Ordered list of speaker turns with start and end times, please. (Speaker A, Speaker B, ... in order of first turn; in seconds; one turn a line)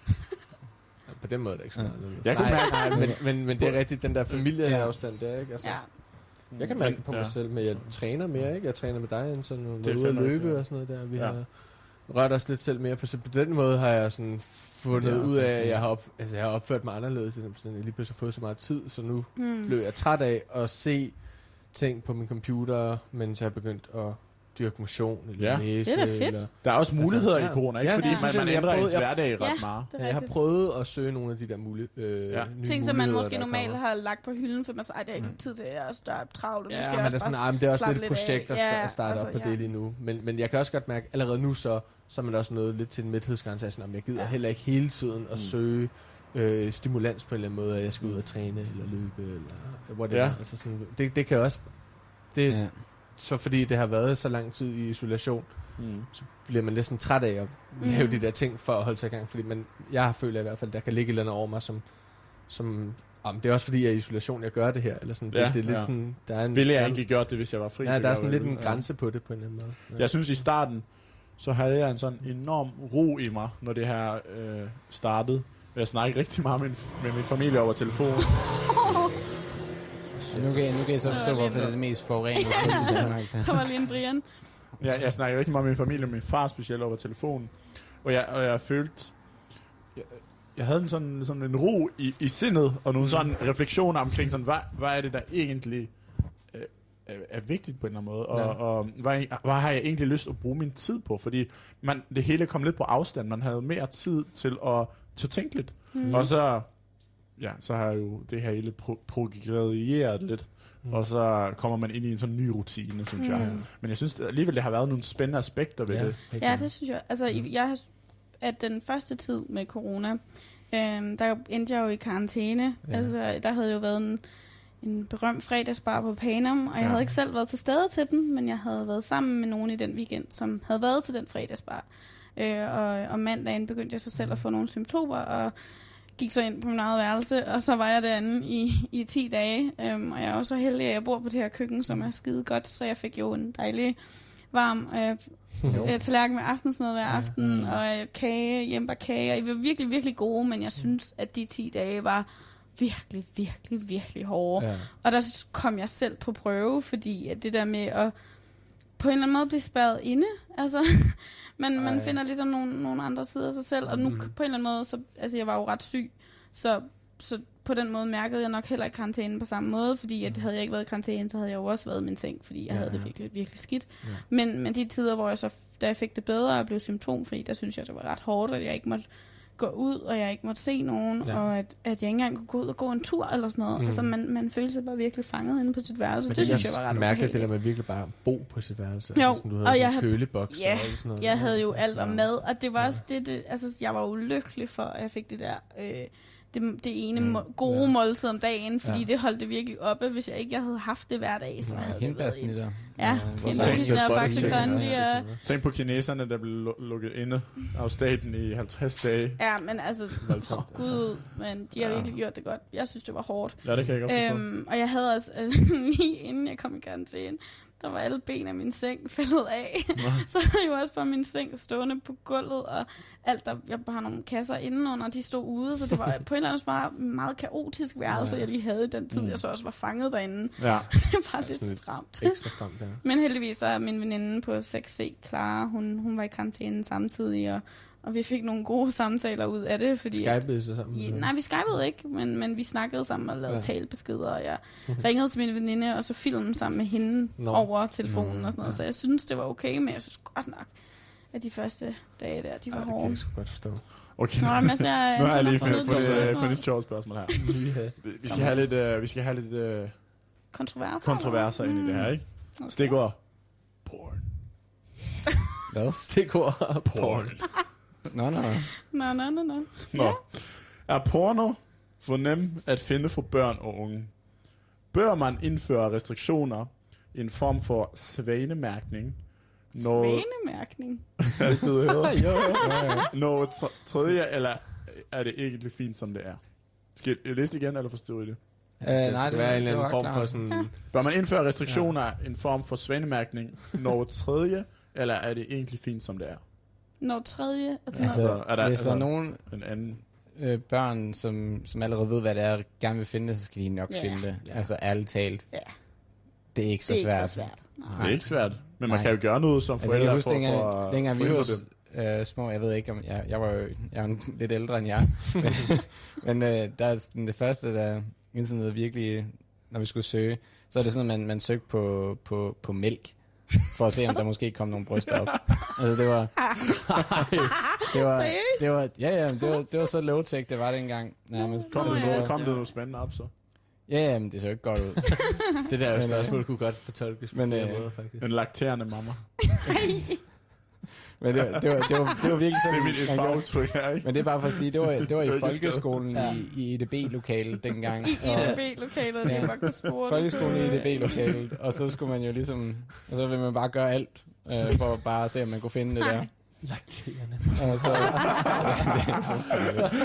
Speaker A: 1.1-33.8
Speaker B: 1.8-2.6
Speaker C: 2.2-4.5
Speaker B: 4.6-4.9
Speaker D: 5.6-5.9
Speaker C: 6.5-8.5
Speaker C: 9.8-11.4
Speaker B: 14.9-15.8
Speaker D: 19.4-19.8
Speaker C: 25.4-25.8
Speaker D: 25.8-26.5
Speaker C: 26.6-29.9
Speaker D: 28.0-28.4
Speaker D: 29.4-30.3
Speaker D: 32.6-39.6
Speaker A: 36.7-70.2
Speaker C: 50.1-50.4
Speaker B: 52.5-52.8
Speaker C: 55.8-56.1
Speaker D: 57.8-58.3
Speaker C: 65.3-79.0
Speaker A: 80.1-81.5
Speaker B: 80.3-83.6
Speaker D: 81.0-84.3
Speaker A: 82.6-83.1
Speaker C: 84.8-116.2
Speaker A: 93.0-93.3
Speaker A: 98.3-98.6
Speaker D: 105.9-106.2
Speaker A: 106.0-106.3
Speaker D: 113.2-113.5
Speaker A: 113.3-113.7
Speaker A: 115.9-116.7
Speaker D: 116.4-187.5
Speaker A: 122.8-123.1
Speaker C: 126.8-127.1
Speaker A: 145.6-146.1
Speaker B: 145.7-146.0
Speaker A: 147.0-147.8
Speaker A: 154.6-154.9
Speaker A: 161.7-162.2
Speaker A: 163.9-164.3
Speaker A: 172.7-174.2
Speaker A: 183.8-184.1
Speaker A: 186.3-193.0
Speaker B: 186.4-186.7
Speaker D: 189.1-205.3
Speaker A: 197.6-198.1
Speaker A: 198.8-199.1
Speaker A: 201.6-201.9
Speaker B: 201.7-204.9
Speaker A: 203.2-205.4
Speaker C: 203.5-210.6
Speaker D: 209.4-253.2
Speaker A: 210.2-211.4
Speaker C: 213.6-214.5
Speaker A: 228.1-228.4
Speaker C: 229.1-229.4
Speaker C: 230.6-231.0
Speaker A: 231.4-233.0
Speaker A: 240.1-241.3
Speaker A: 243.5-243.7
Speaker A: 247.4-247.7
Speaker B: 248.0-248.5
Speaker A: 252.7-254.2
Speaker C: 254.2-260.3
Speaker D: 254.4-257.4
Speaker A: 255.6-256.8
Speaker A: 257.4-258.5
Speaker D: 258.2-258.7
Speaker D: 260.5-263.0
Speaker C: 261.0-264.6
Speaker B: 265.7-266.5
Speaker A: 266.0-267.5
Speaker C: 266.8-267.6
Speaker B: 268.1-268.7
Speaker D: 268.9-270.2
Speaker C: 269.9-280.3
Speaker D: 279.7-281.4
Speaker C: 281.4-282.6
Speaker A: 282.0-282.7
Speaker D: 282.6-283.1
Speaker B: 282.6-283.1
Speaker C: 283.1-288.8
Speaker A: 288.8-290.9
Speaker B: 288.8-290.5
Speaker C: 290.9-296.4
Speaker A: 291.6-291.9
Speaker D: 297.0-298.4
Speaker C: 297.9-300.0
Speaker B: 298.0-306.0
Speaker D: 303.9-304.2
Speaker A: 304.4-304.7
Speaker B: 306.5-327.0
Speaker D: 306.9-308.1
Speaker C: 307.9-311.6
Speaker A: 327.1-327.5
Speaker D: 327.9-329.6
Speaker B: 327.9-332.4
Speaker D: 331.4-332.6
Speaker C: 331.7-333.3
Speaker A: 332.4-332.6
Speaker B: 333.8-337.9
Speaker A: 335.6-338.3
Speaker C: 338.2-339.7
Speaker D: 339.6-340.2
Speaker B: 341.2-356.6
Speaker C: 342.6-344.7
Speaker C: 345.2-346.3
Speaker A: 346.1-346.4
Speaker D: 348.1-351.2
Speaker A: 348.2-348.9
Speaker A: 356.6-359.7
Speaker B: 357.6-359.8